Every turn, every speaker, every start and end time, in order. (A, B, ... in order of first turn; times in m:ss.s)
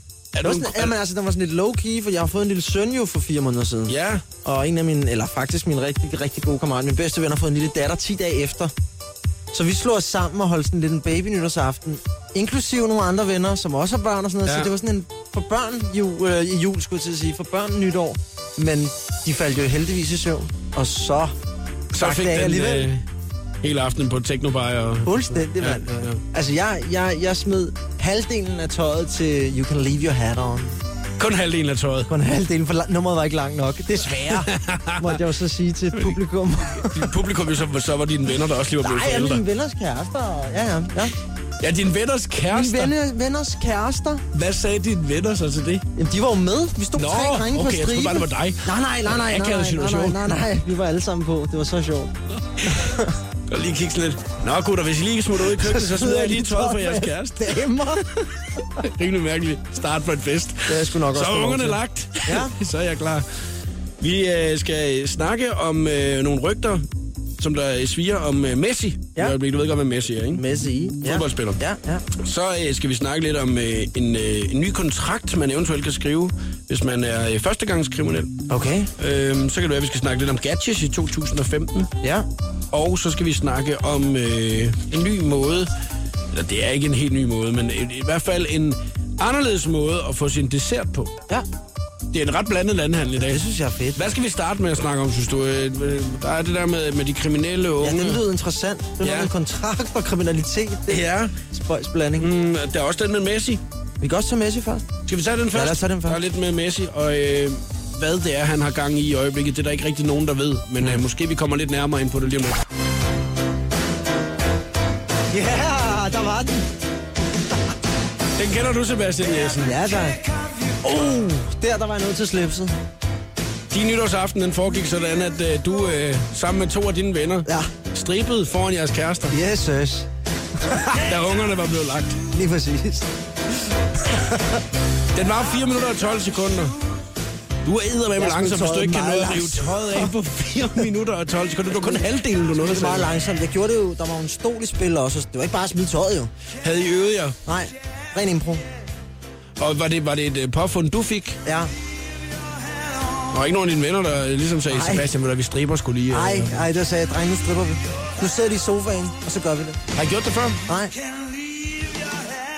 0:00.3-0:00.9 A
0:00.4-0:08.7 B
0:03.9-0:04.2 A
0:09.5-0:21.4 B
0:21.9-0:23.0 A
0:21.9-0:22.9 B
0:23.6-0:26.2 A
0:25.0-0:30.8 B
0:31.2-0:32.1 A
0:32.1-0:37.1 B
0:34.0-0:35.2 A
0:36.8-0:39.4 A
0:38.8-0:41.1 B
0:41.6-0:42.9 A
0:42.5-0:44.2 B
0:44.3-0:45.8 A
0:46.0-0:53.2 B
0:47.0-0:50.4 A
0:53.5-0:57.6 A
0:55.4-0:58.3 B
0:58.8-1:03.2 A
1:00.7-1:02.6 B
1:04.0-1:06.8 A
1:07.4-1:10.4 A
1:10.3-1:12.0 B
1:11.0-1:11.6 A
1:12.1-1:18.4 A
1:18.5-1:18.9 B
1:19.0-1:21.9 A
1:22.0-1:22.3 B
1:22.7-1:25.7 A
1:26.3-1:31.1 A
1:32.1-1:33.4 A
1:33.2-1:34.1 B
1:33.9-1:38.2 A
1:37.8-1:42.3 B
1:39.0-1:39.3 A
1:40.9-1:41.3 A
1:42.2-1:43.6 A
1:44.0-1:44.9 B
1:45.1-1:52.6 A
1:45.5-1:46.2 B
1:55.3-1:56.7 B
1:58.4-1:59.9 A
1:59.5-2:00.2 B
2:00.8-2:02.8 B
2:03.7-2:09.4 A
2:07.4-2:07.7 B
2:09.3-2:11.0 B
2:10.9-2:12.2 A
2:12.3-2:14.6 B
2:15.1-2:16.8 A
2:17.6-2:23.1 A
2:18.2-2:20.1 B
2:21.7-2:26.3 B
2:26.6-2:27.4 A
2:27.4-2:28.6 B
2:29.6-2:31.4 A
2:31.4-2:31.7 B
2:33.3-2:36.7 A
2:34.7-2:35.1 B
2:36.1-2:39.8 B
2:39.9-2:40.6 A
2:40.7-2:40.9 B